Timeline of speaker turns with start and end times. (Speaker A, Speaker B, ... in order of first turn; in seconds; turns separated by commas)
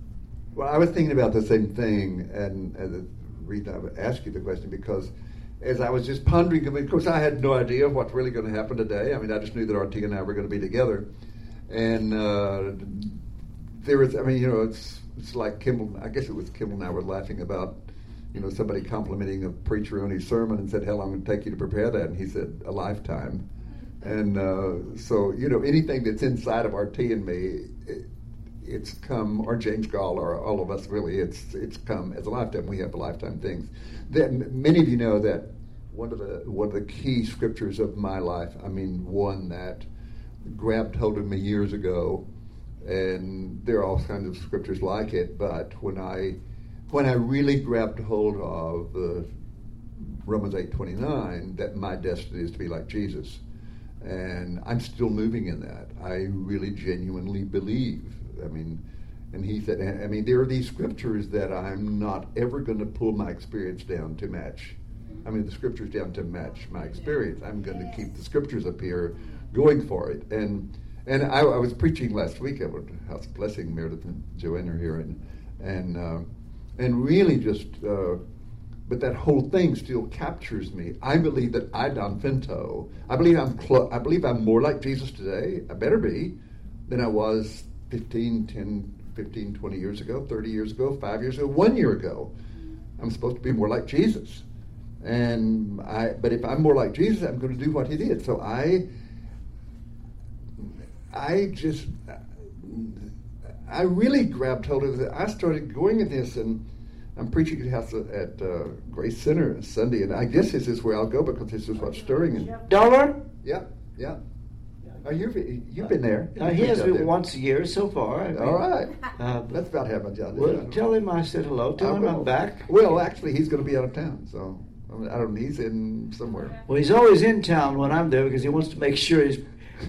Speaker A: 0.5-11.0, Speaker A: 11.7-13.2, Speaker A: 13.7-23.4, Speaker A: 24.0-28.1, Speaker A: 28.6-39.9, Speaker A: 40.4-42.2, Speaker A: 42.8-46.4, Speaker A: 46.9-49.3, Speaker A: 49.9-53.4, Speaker A: 54.0-58.8, Speaker A: 59.3-78.2, Speaker A: 78.8-86.3, Speaker A: 86.9-92.3, Speaker A: 93.0-94.4, Speaker A: 95.0-98.8, Speaker A: 100.6-103.1, Speaker A: 103.6-106.6, Speaker A: 107.2-112.5, Speaker B: 112.5-113.2, Speaker A: 113.4-114.2, Speaker A: 115.0-117.1, Speaker B: 116.3-119.6, Speaker A: 118.3-120.8, Speaker B: 120.3-122.7, Speaker A: 121.8-126.6, Speaker B: 126.7-129.4